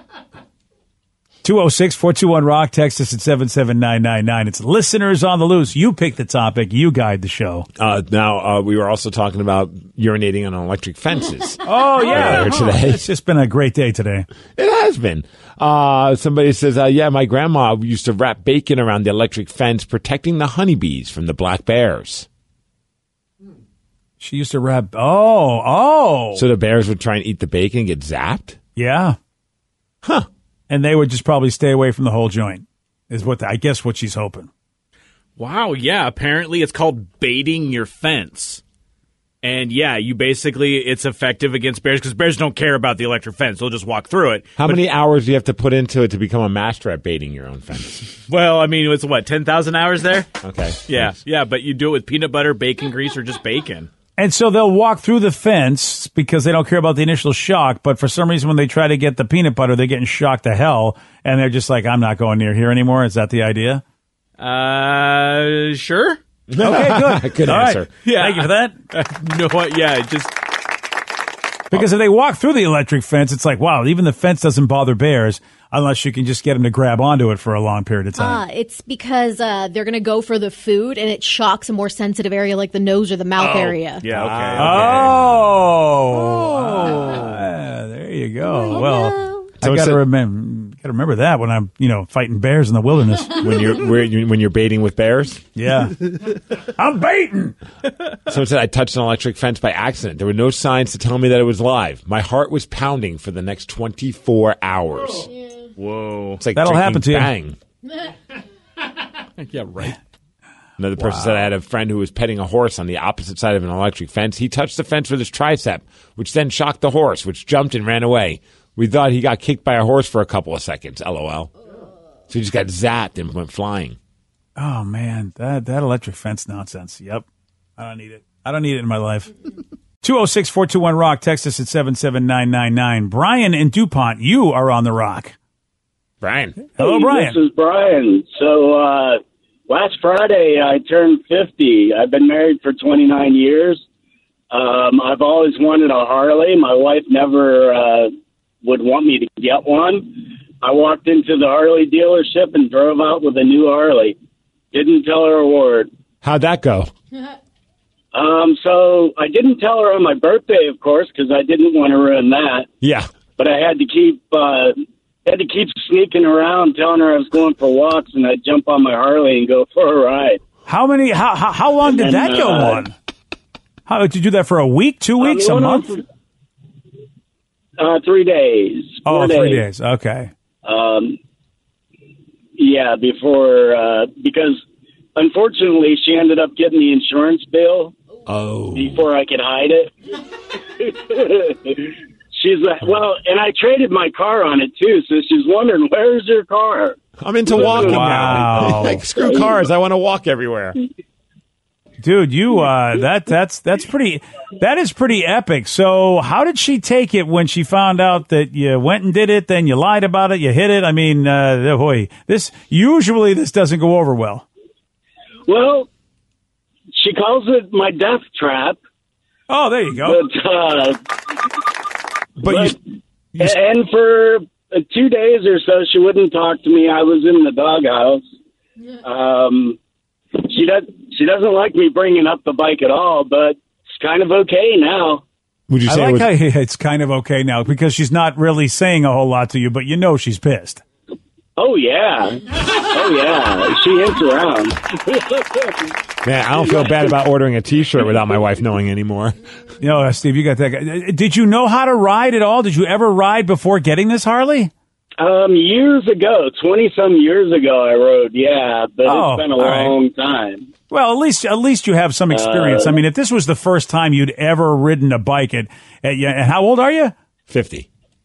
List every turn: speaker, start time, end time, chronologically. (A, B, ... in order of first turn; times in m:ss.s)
0:01.4-0:07.7 A
0:07.7-0:13.0 B
0:11.6-0:14.3 A
0:14.5-0:22.3 B
0:24.2-0:26.4 A
0:26.3-0:28.6 B
0:28.8-0:29.2 A
0:30.7-0:34.5 A
0:35.4-0:38.6 C
0:39.4-0:44.8 C
0:44.6-0:48.2 B
0:48.3-0:50.3 C
0:50.4-0:51.2 B
0:50.9-0:53.9 C
0:54.2-1:03.8 A
1:04.4-1:06.2 C
1:06.5-1:07.9 B
1:06.6-1:08.7 A
1:08.0-1:10.4 C
1:11.7-1:18.4 A
1:18.2-1:24.0 D
1:23.4-1:25.2 C
1:24.0-1:27.1 B
1:24.6-1:33.6 A
1:28.5-1:29.5 D
1:29.6-1:30.0 B
1:33.3-1:35.5 B
1:35.6-1:37.6 A
1:38.3-1:45.3 B
1:45.8-1:46.4 C
1:46.4-1:47.6 B
1:46.5-1:47.3 A
1:49.4-1:50.0 C
1:50.8-2:01.5 B
1:51.0-1:51.5 A
2:02.3-2:04.0 B
2:04.6-2:07.2 A
2:07.8-2:09.3 A
2:10.0-2:15.4 A
2:16.2-2:16.6 B
2:16.8-2:23.8 E
2:16.8-2:17.4 A
2:24.5-2:28.1 E
2:28.6-2:34.2 E
2:34.7-2:35.9 E
2:36.2-2:36.9 B
2:38.1-2:42.7 E
2:42.8-2:43.1 B
2:43.4-2:44.7 E
2:45.2-2:50.4 E
2:50.7-2:52.9 A
2:51.8-2:52.9 E
2:53.9-2:56.0 A
2:55.2-2:56.0 E
2:57.8-2:59.6 E
2:59.0-3:00.3 A
3:00.6-3:01.2 E
3:02.6-3:04.6 E
3:05.2-3:07.9 E
3:08.3-3:09.0 B
3:08.7-3:09.9 E
3:10.8-3:17.0 E
3:17.2-3:20.8 B
3:17.5-3:18.1 E
3:17.6-3:18.6 C
3:17.9-3:19.0 A
3:19.0-3:19.6 E
3:22.0-3:34.4 A
3:35.5-3:35.9 E
3:37.0-3:38.8 E
3:39.5-3:40.2 A
3:40.0-3:41.0 E
3:42.4-3:42.8 B
3:42.4-3:42.8 E
3:43.4-3:48.2 E
3:49.0-3:49.8 E
3:50.4-3:55.2 E
3:55.7-3:56.3 B
3:55.9-4:00.8 A
4:01.6-4:05.8 E
4:06.2-4:09.4 B
4:09.8-4:14.7 A
4:15.2-4:20.7 E
4:19.0-4:19.9 A
4:20.9-4:27.1 A
4:22.3-4:23.0 E
4:27.5-4:27.9 B